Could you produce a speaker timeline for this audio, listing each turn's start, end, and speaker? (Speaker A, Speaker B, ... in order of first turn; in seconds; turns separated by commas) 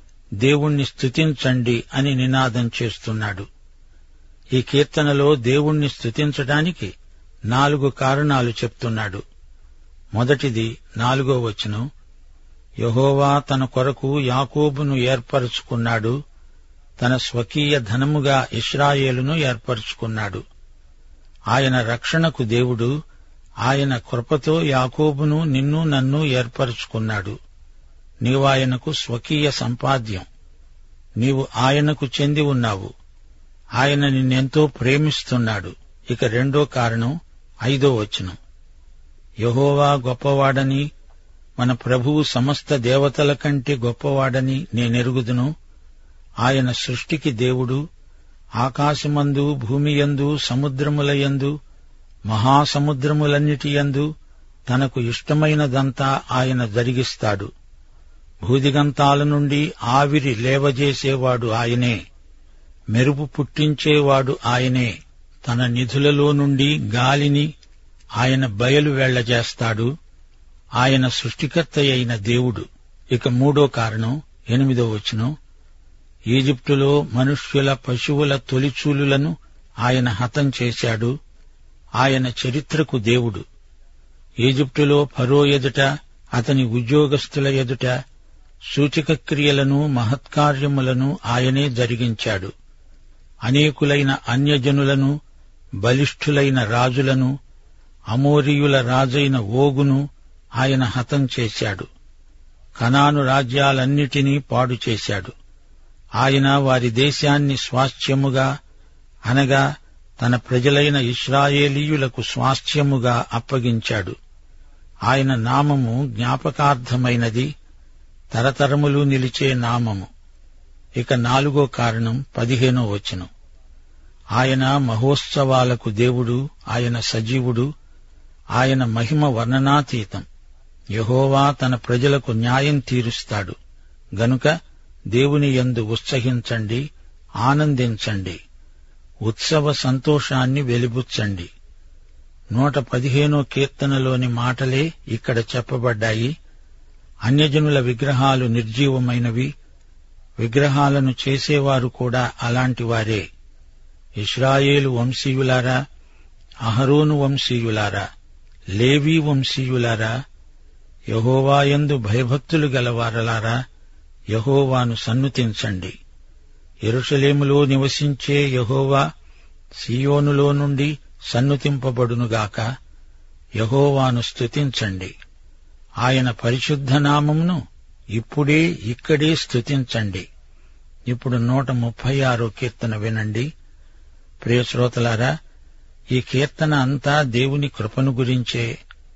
Speaker A: 0.4-3.5, Speaker A: 4.5-6.9, Speaker A: 7.5-9.2, Speaker A: 10.1-11.9, Speaker A: 12.8-16.2, Speaker A: 17.0-20.4, Speaker A: 21.5-22.9, Speaker A: 23.6-27.4, Speaker A: 28.2-30.3, Speaker A: 31.2-32.9, Speaker A: 33.8-38.4, Speaker A: 39.4-40.9, Speaker A: 41.6-45.5, Speaker A: 46.4-47.8, Speaker A: 48.6-51.5, Speaker A: 52.3-54.1, Speaker A: 54.7-57.5, Speaker A: 58.4-62.0, Speaker A: 62.9-64.9, Speaker A: 65.5-67.5, Speaker A: 68.2-69.9, Speaker A: 70.8-75.3, Speaker A: 76.3-81.2, Speaker A: 82.0-83.5, Speaker A: 84.4-87.9, Speaker A: 88.7-92.5, Speaker A: 93.5-95.1, Speaker A: 95.8-97.3, Speaker A: 98.1-100.0, Speaker A: 100.6-101.9, Speaker A: 102.8-105.3, Speaker A: 106.2-108.5, Speaker A: 109.3-109.7, Speaker A: 110.2-114.2, Speaker A: 115.1-117.5, Speaker A: 118.3-120.1, Speaker A: 121.0-123.3, Speaker A: 124.4-127.7, Speaker A: 128.6-130.3, Speaker A: 130.9-133.6, Speaker A: 134.2-134.5, Speaker A: 135.1-136.9, Speaker A: 137.4-138.4, Speaker A: 139.3-141.5, Speaker A: 142.5-146.3, Speaker A: 147.3-149.5, Speaker A: 150.4-153.2, Speaker A: 154.2-155.8, Speaker A: 156.7-158.1, Speaker A: 158.8-160.1, Speaker A: 161.1-163.6, Speaker A: 164.3-165.9, Speaker A: 166.9-169.1, Speaker A: 169.8-172.7, Speaker A: 173.6-175.1, Speaker A: 176.0-177.6, Speaker A: 178.2-180.2, Speaker A: 181.1-183.5, Speaker A: 184.4-185.3, Speaker A: 186.2-188.7